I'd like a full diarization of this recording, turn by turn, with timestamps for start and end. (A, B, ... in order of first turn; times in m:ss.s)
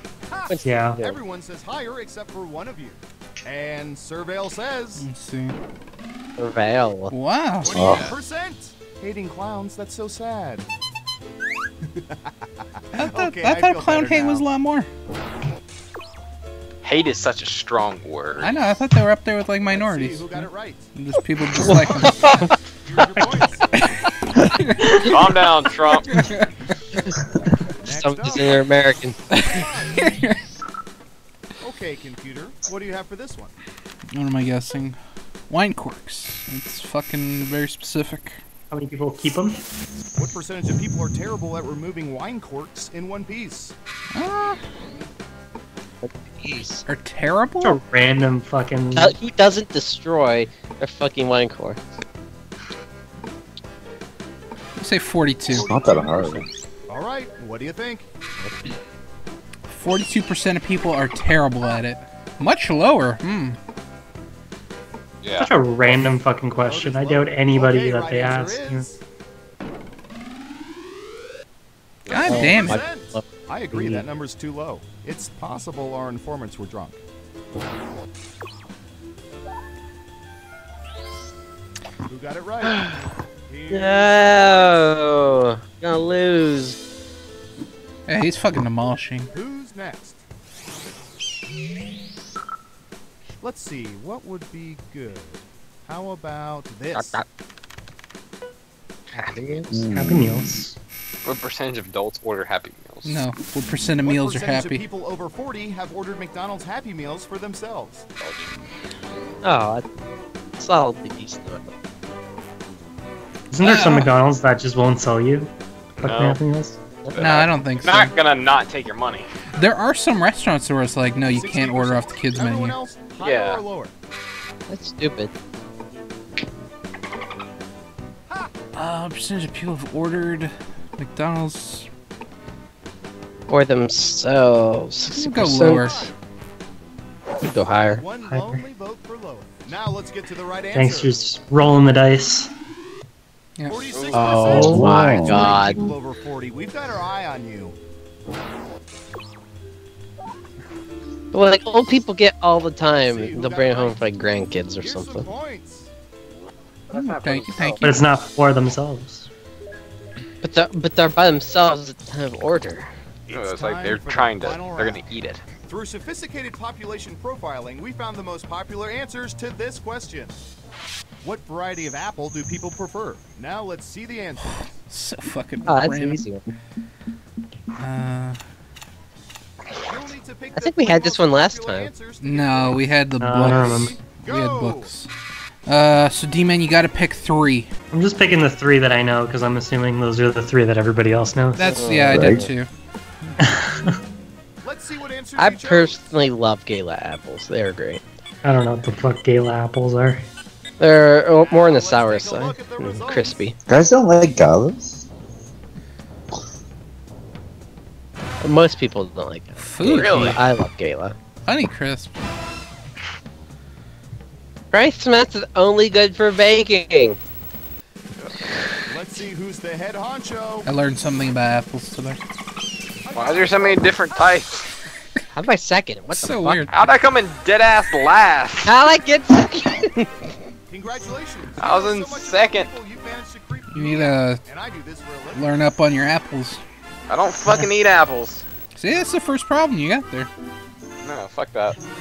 0:00.3-0:05.1 A
0:00.5-0:01.2 B
0:00.6-0:01.0 C
0:05.0-0:05.6 D
0:06.4-0:07.1 B
0:07.1-0:07.9 D
0:07.6-0:10.7 A
0:07.7-0:08.0 E
0:07.8-0:08.2 F
0:11.8-0:14.5 A
0:12.9-0:14.9 D
0:16.8-0:18.6 F
0:18.4-0:22.3 D
0:19.7-0:20.9 A
0:21.6-0:23.4 B
0:21.7-0:23.7 A
0:23.2-0:23.4 C
0:23.7-0:25.2 D
0:25.1-0:26.2 F
0:26.1-0:26.5 D
0:27.8-0:28.6 A
0:27.8-0:29.2 B
0:29.3-0:30.4 D
0:29.4-0:30.1 A
0:31.6-0:33.6 A
0:34.1-0:35.0 D
0:35.5-0:38.4 D
0:38.7-0:39.6 C
0:40.2-0:43.7 A
0:44.1-0:44.6 D
0:46.0-0:46.8 B
0:46.9-0:47.8 D
0:47.6-0:49.2 C
0:49.0-0:51.8 B
0:54.8-0:55.7 D
0:55.6-0:56.5 E
0:55.7-0:58.1 A
0:59.7-1:03.6 D
1:05.2-1:05.5 F
1:05.4-1:08.8 C
1:05.8-1:09.0 A
1:12.1-1:12.4 F
1:12.1-1:12.8 D
1:12.2-1:14.0 B
1:12.3-1:17.0 A
1:22.1-1:24.9 A
1:22.6-1:23.1 B
1:23.7-1:26.8 B
1:28.1-1:29.3 D
1:29.3-1:30.2 A
1:33.4-1:37.2 A
1:36.9-1:37.2 F
1:39.1-1:39.8 B
1:39.7-1:40.6 E
1:39.9-1:40.7 C
1:41.2-1:43.2 F
1:43.0-1:44.8 D
1:44.0-1:48.0 A
1:48.2-1:48.5 F
1:49.4-1:49.8 B
1:50.6-1:51.7 B
1:53.5-1:56.8 C
1:53.6-1:54.1 D
1:56.0-1:56.4 F
1:57.1-1:59.3 F
1:57.2-1:58.1 D
1:59.5-2:02.8 D
2:01.3-2:03.9 A
2:03.2-2:03.6 F
2:04.7-2:05.3 B
2:08.7-2:11.9 D
2:13.5-2:16.0 B
2:15.1-2:16.0 D
2:15.6-2:16.1 A
2:17.4-2:18.0 B
2:17.8-2:21.2 A
2:18.2-2:18.6 C
2:20.7-2:22.5 C
2:23.7-2:27.8 A
2:23.8-2:24.5 F
2:24.1-2:25.9 B
2:24.5-2:25.7 E
2:31.3-2:35.3 B
2:33.0-2:34.0 A
2:34.8-2:35.9 A
2:36.9-2:37.8 F
2:36.9-2:37.8 B
2:37.2-2:38.0 D
2:37.8-2:39.3 C
2:40.4-2:42.9 B
2:43.3-2:45.4 F
2:43.3-2:45.0 A
2:45.7-2:50.4 A
2:51.2-2:54.8 A
2:54.4-2:56.2 D
2:55.6-2:56.5 B
2:57.8-2:58.4 D
2:59.9-3:02.8 A
3:00.6-3:01.9 B
3:02.2-3:05.1 D
3:03.2-3:04.0 C
3:03.4-3:04.9 A
3:05.7-3:07.7 D
3:07.9-3:11.7 C
3:11.5-3:12.7 D
3:11.7-3:12.5 B
3:12.1-3:12.5 E
3:13.4-3:13.9 C
3:14.6-3:16.1 A
3:15.4-3:18.0 B
3:18.4-3:20.2 C
3:20.8-3:23.5 B
3:21.4-3:23.5 A
3:23.7-3:25.1 E
3:28.4-3:31.1 B
3:29.6-3:30.4 D
3:29.9-3:30.4 F
3:31.5-3:32.1 D
3:34.7-3:37.2 B
3:38.2-3:38.5 F
3:38.9-3:40.6 A
3:40.6-3:42.2 D
3:43.0-3:44.0 A
3:43.1-3:44.7 F
3:45.3-3:46.7 B
3:46.1-3:46.7 D
3:46.7-3:48.7 F
3:48.6-3:50.1 B
3:50.7-3:55.6 A
3:51.6-3:52.7 F
3:53.7-3:54.4 D
3:55.3-3:56.6 D
3:57.1-3:58.4 F
3:58.7-4:00.3 D
4:01.0-4:01.8 F